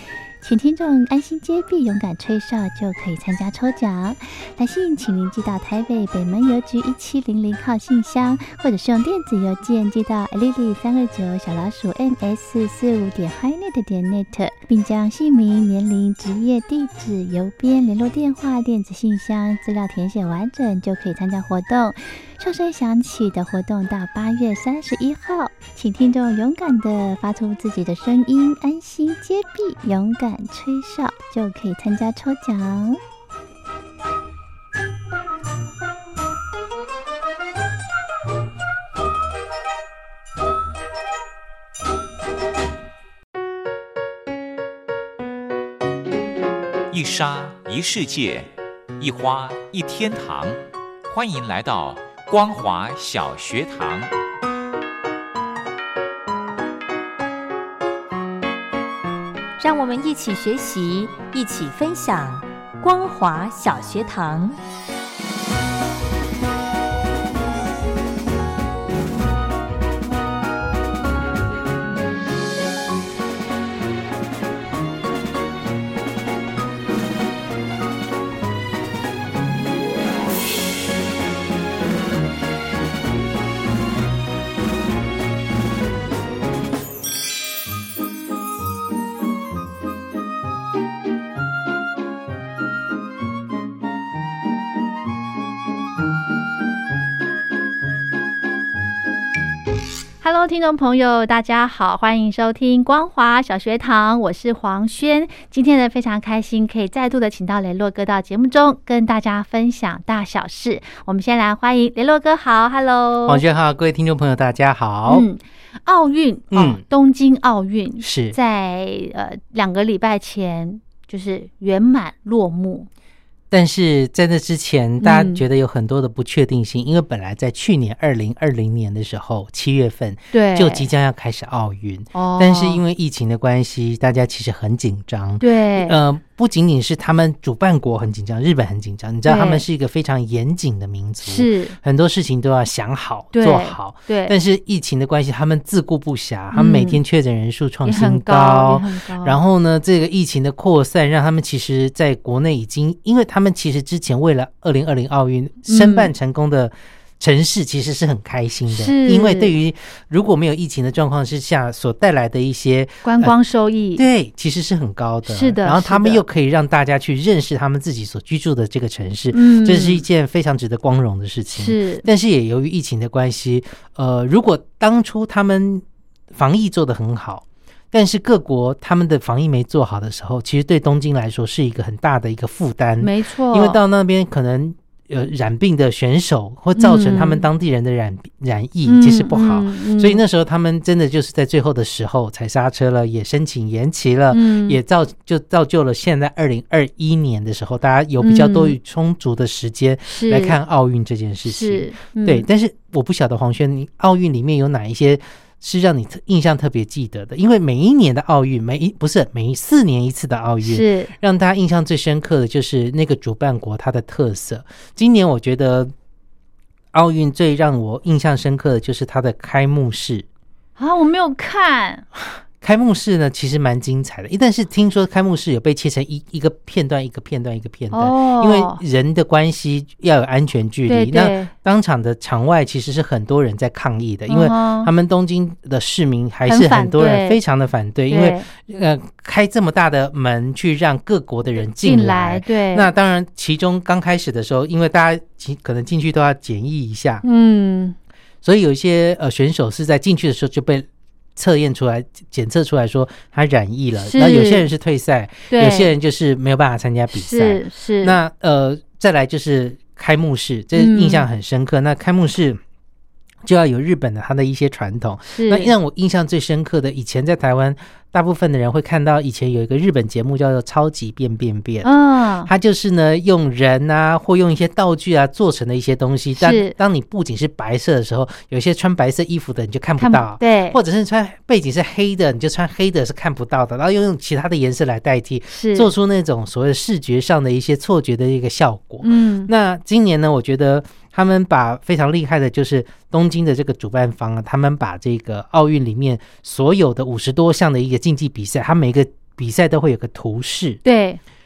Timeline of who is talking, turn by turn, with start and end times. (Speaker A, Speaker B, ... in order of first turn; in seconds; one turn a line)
Speaker A: 0.4-33.0
Speaker B: 46.9-54.1
Speaker C: 59.6-64.6
Speaker D: 100.2-113.4
Speaker E: 113.2-115.3
Speaker D: 115.1-122.9
Speaker E: 116.5-116.8
Speaker E: 118.0-118.4
Speaker E: 123.5-163.3
Speaker D: 125.0-125.4
Speaker D: 130.3-130.9
Speaker D: 132.1-132.8
Speaker D: 135.4-136.0
Speaker D: 139.2-139.6
Speaker D: 141.2-141.8
Speaker D: 143.3-144.3
Speaker D: 146.5-147.0
Speaker D: 147.8-149.4
Speaker D: 155.7-156.1
Speaker D: 158.7-159.5
Speaker D: 163.0-164.0
Speaker E: 163.9-215.9
Speaker D: 165.3-166.2
Speaker D: 169.3-170.0
Speaker D: 171.5-172.0
Speaker D: 183.0-183.8
Speaker D: 186.7-187.4
Speaker D: 188.8-190.2
Speaker D: 194.3-194.8
Speaker D: 198.2-198.8
Speaker D: 200.1-200.6
Speaker D: 201.4-202.5
Speaker D: 210.6-211.1
Speaker E: 216.9-220.2
Speaker D: 220.8-222.0
Speaker E: 222.6-247.2
Speaker D: 227.9-228.8
Speaker D: 230.9-231.5
Speaker D: 234.3-234.9
Speaker D: 236.4-237.4
Speaker D: 238.1-238.5
Speaker D: 241.6-242.9
Speaker D: 247.2-247.9
Speaker E: 248.4-262.6
Speaker D: 254.0-254.7
Speaker D: 255.5-255.9
Speaker D: 257.1-258.2
Speaker D: 260.7-261.3
Speaker E: 263.4-271.9
Speaker D: 265.3-265.7
Speaker D: 271.8-272.5
Speaker E: 272.4-300.8
Speaker D: 276.4-276.7
Speaker D: 280.0-280.8
Speaker D: 285.5-285.9
Speaker D: 289.0-289.5
Speaker D: 300.8-301.2